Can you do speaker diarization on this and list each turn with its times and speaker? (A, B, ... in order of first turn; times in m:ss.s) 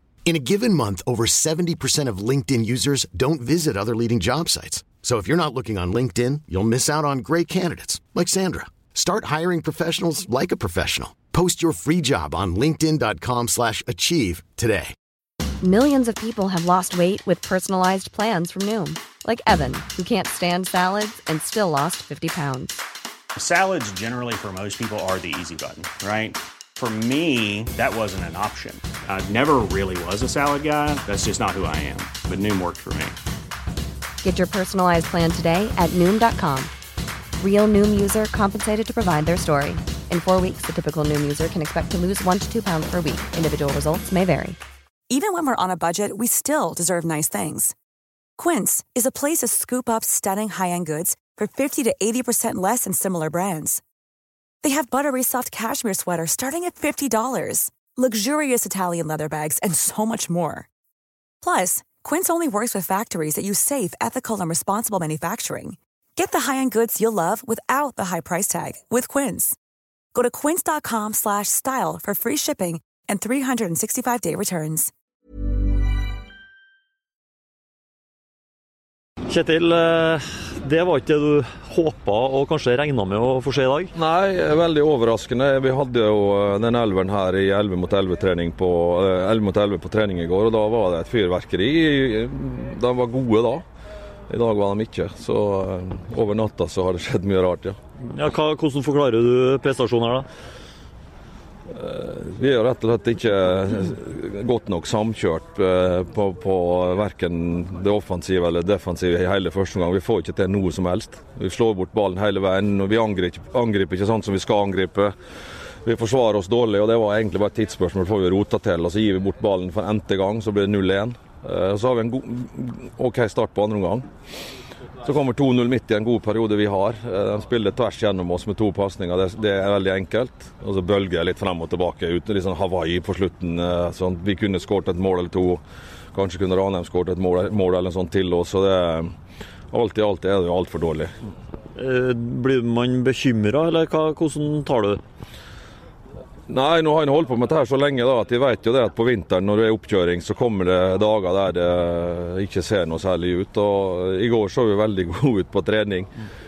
0:00.2-0:14.9 A
0:15.6-0:22.8 B
0:23.4-0:33.2 C
0:34.2-0:36.7 B
0:37.4-0:44.6 B
0:45.1-0:47.7 D
0:48.4-0:53.8 D
0:54.6-1:00.7 D
1:01.4-1:09.6 D
1:10.1-1:14.9 D
1:19.3-1:23.9 E
1:23.9-1:33.6 F
1:34.3-1:37.8 F
1:38.1-1:40.2 E
1:41.7-1:55.1 F
1:55.8-2:04.0 F
2:05.0-2:15.6 F
2:16.1-2:19.1 F
2:19.7-2:21.1 F
2:21.8-2:25.0 E
2:26.5-2:36.1 F